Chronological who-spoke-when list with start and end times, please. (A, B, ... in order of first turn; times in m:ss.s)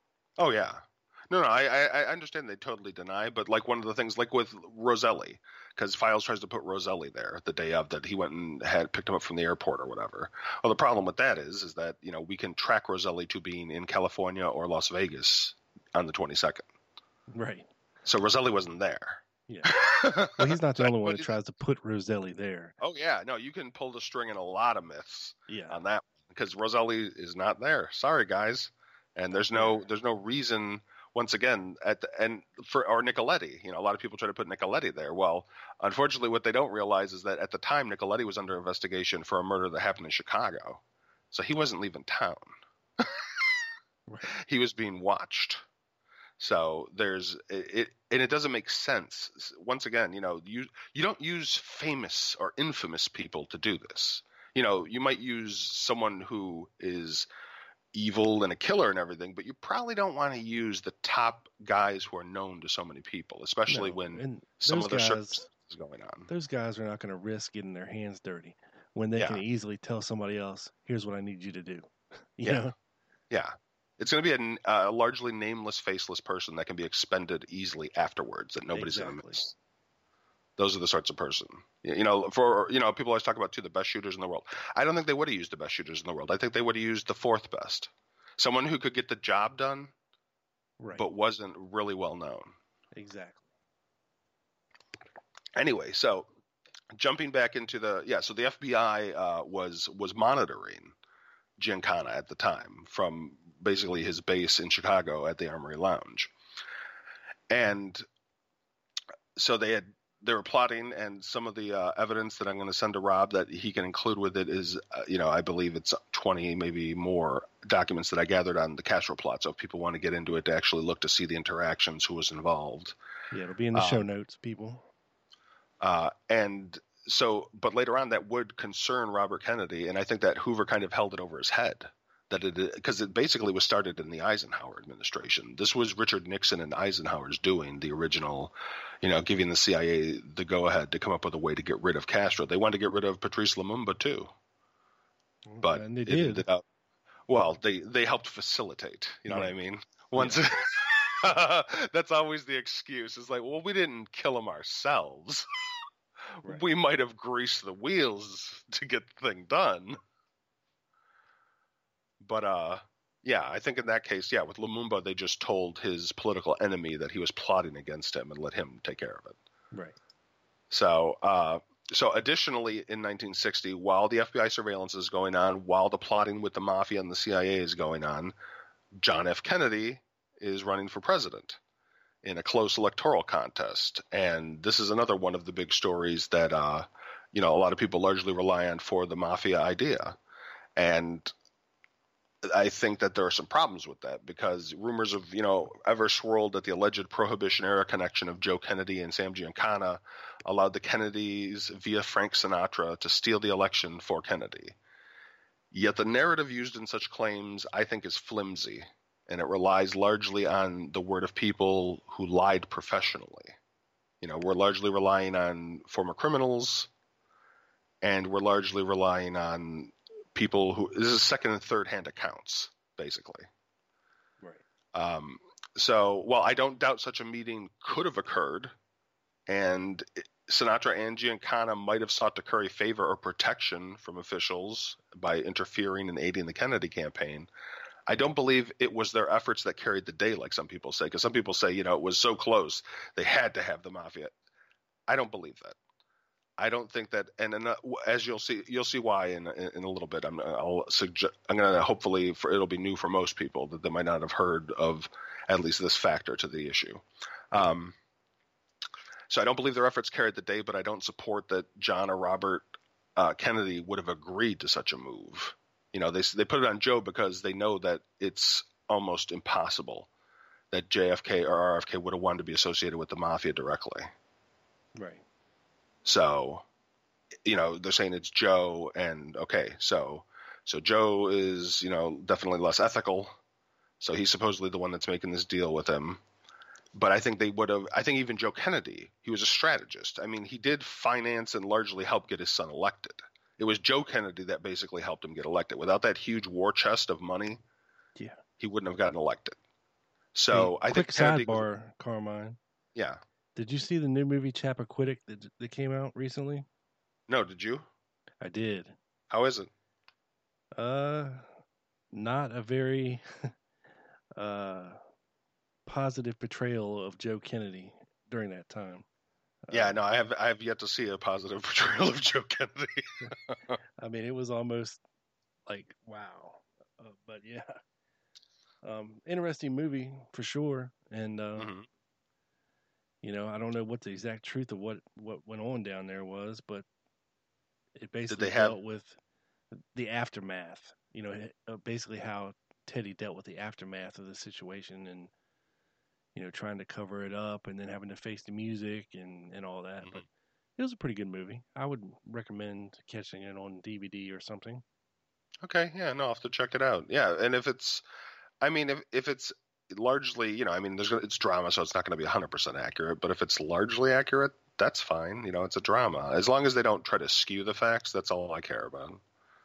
0:00.4-0:16.6 A
0:17.3-0:17.7 B
0:18.0-0:21.3 A
0:19.5-0:19.8 B
0:20.3-0:22.7 B
0:22.8-0:43.3 A
0:25.5-0:25.8 B
0:29.5-0:29.9 B
0:44.1-0:44.3 B
0:44.4-0:45.6 A
0:46.4-0:57.3 A
0:57.9-1:06.3 A
1:03.7-1:05.4 B
1:06.3-1:12.7 B
1:09.2-1:09.4 A
1:13.3-1:19.5 A
1:18.7-1:19.4 B
1:20.6-1:29.9 A
1:30.8-1:31.1 B
1:31.0-1:32.6 A
1:33.0-1:33.4 B
1:35.6-1:36.3 A
1:36.9-1:40.9 A
1:41.6-1:46.3 A
1:47.5-1:48.0 A
1:49.4-2:03.0 A
2:03.3-2:04.9 B
2:03.7-2:04.1 A
2:05.8-2:24.3 A
2:25.5-2:26.4 B
2:25.6-2:26.6 A
2:27.3-2:35.5 A
2:29.3-2:29.5 B
2:36.4-2:40.0 A
2:42.2-2:49.4 A
2:50.7-2:58.3 A
2:59.0-3:01.6 A
3:02.2-3:10.2 A
3:10.8-3:11.3 A
3:12.4-3:24.8 A
3:25.7-3:33.5 A
3:34.2-3:36.9 A
3:38.0-3:43.5 A
3:44.9-3:48.7 A
3:49.5-3:57.5 A
3:58.1-4:04.3 A
4:05.1-4:05.8 A
4:06.6-4:17.9 A
4:19.3-4:30.1 A
4:30.7-4:34.1 A
4:35.0-4:35.2 B
4:36.0-4:36.6 A
4:37.4-4:43.4 A
4:44.0-4:46.2 A
4:46.9-4:57.6 A
4:58.6-4:59.6 A
5:00.4-5:01.7 A
5:00.5-5:02.6 B
5:02.9-5:03.2 A
5:03.6-5:06.6 B
5:07.3-5:07.9 A
5:08.4-5:08.9 B
5:09.3-5:09.7 A
5:10.8-5:11.4 B
5:12.1-5:13.5 B
5:14.4-5:15.0 B
5:15.9-5:19.0 B
5:19.6-5:20.0 B
5:19.7-5:23.8 A
5:24.0-5:25.0 B
5:25.7-5:27.8 B
5:28.8-5:31.7 B
5:31.6-5:31.9 A
5:33.2-5:36.9 B
5:38.0-5:39.2 B
5:38.3-5:38.8 A
5:39.7-5:45.3 B
5:46.4-5:50.3 B
5:50.8-5:54.8 B
5:55.6-5:58.0 A
5:58.6-6:09.2 A